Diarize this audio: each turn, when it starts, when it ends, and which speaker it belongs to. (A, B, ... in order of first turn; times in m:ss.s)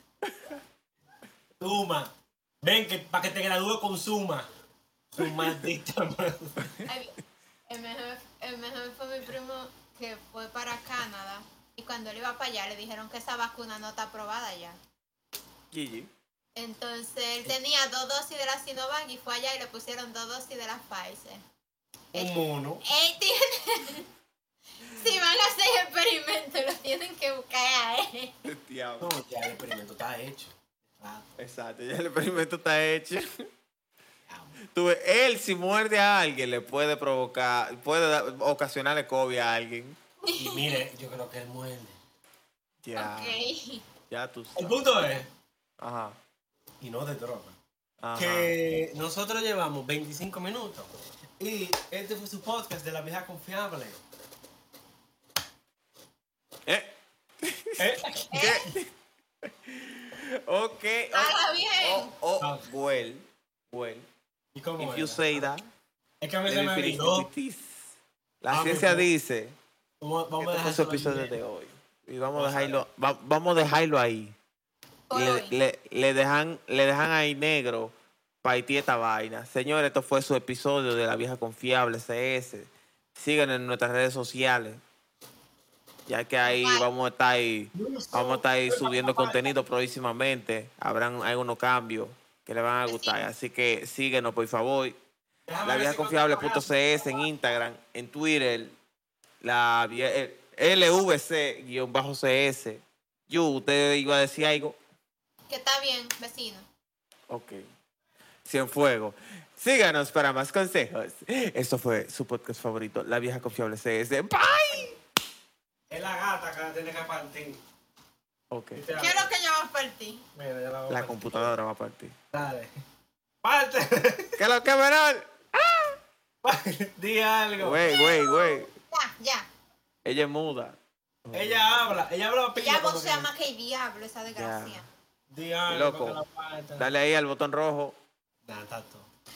0:01.6-0:04.5 A
0:05.1-0:06.6 A
0:06.9-0:07.2 B
0:07.7-0:14.8 B
0:15.7-0:16.1 C
0:16.6-0:21.4 B
0:22.1-0:22.8 A
0:22.8-0:24.1 B
0:24.9-0:28.3 B
0:28.4-0:29.2 C
0:29.0-0:31.2 A
0:31.4-0:33.3 C
0:34.3-0:34.6 A
0:34.7-0:40.0 C
0:40.2-0:40.8 B
0:40.4-0:42.0 A
0:42.8-0:43.4 C
0:43.0-0:43.8 B
0:44.1-0:45.1 C
0:44.6-0:45.3 A
0:45.8-0:46.2 C
0:46.8-0:47.6 A
0:48.0-0:48.5 C
0:48.2-0:54.0 A
0:56.7-0:58.9 C
0:57.8-0:58.8 A
0:58.3-0:58.7 B
0:59.5-1:04.1 C
1:01.1-1:02.1 B
1:02.4-1:02.7 A
1:04.5-1:05.5 A
1:04.8-1:05.7 C
1:06.2-1:07.3 A
1:06.5-1:09.6 C
1:08.5-1:09.1 A
1:10.0-1:11.4 A
1:10.4-1:14.4 C
1:12.4-1:12.8 A
1:15.1-1:15.5 B
1:15.1-1:24.8 C
1:26.1-1:35.0 C
1:26.4-1:26.9 B
1:27.7-1:29.5 A
1:32.9-1:33.2 B
1:35.5-1:37.0 A
1:35.6-1:38.8 C
1:39.4-1:44.8 C
1:45.5-1:46.7 B
1:47.3-1:47.6 C
1:48.4-1:55.0 C
1:55.9-1:57.6 A
1:58.5-1:58.9 C
1:58.8-1:59.3 A
1:59.0-2:00.2 B
2:00.4-2:01.6 A
2:00.9-2:02.1 C
2:02.3-2:02.7 A
2:03.4-2:04.4 A
2:04.4-2:06.0 C
2:06.4-2:08.1 A
2:07.6-2:08.7 C
2:07.9-2:09.5 B
2:10.0-2:11.8 C
2:11.3-2:13.3 A
2:12.6-2:14.9 B
2:14.3-2:14.9 C
2:15.3-2:16.9 A
2:15.7-2:16.2 C
2:16.8-2:18.0 C
2:18.4-2:19.1 A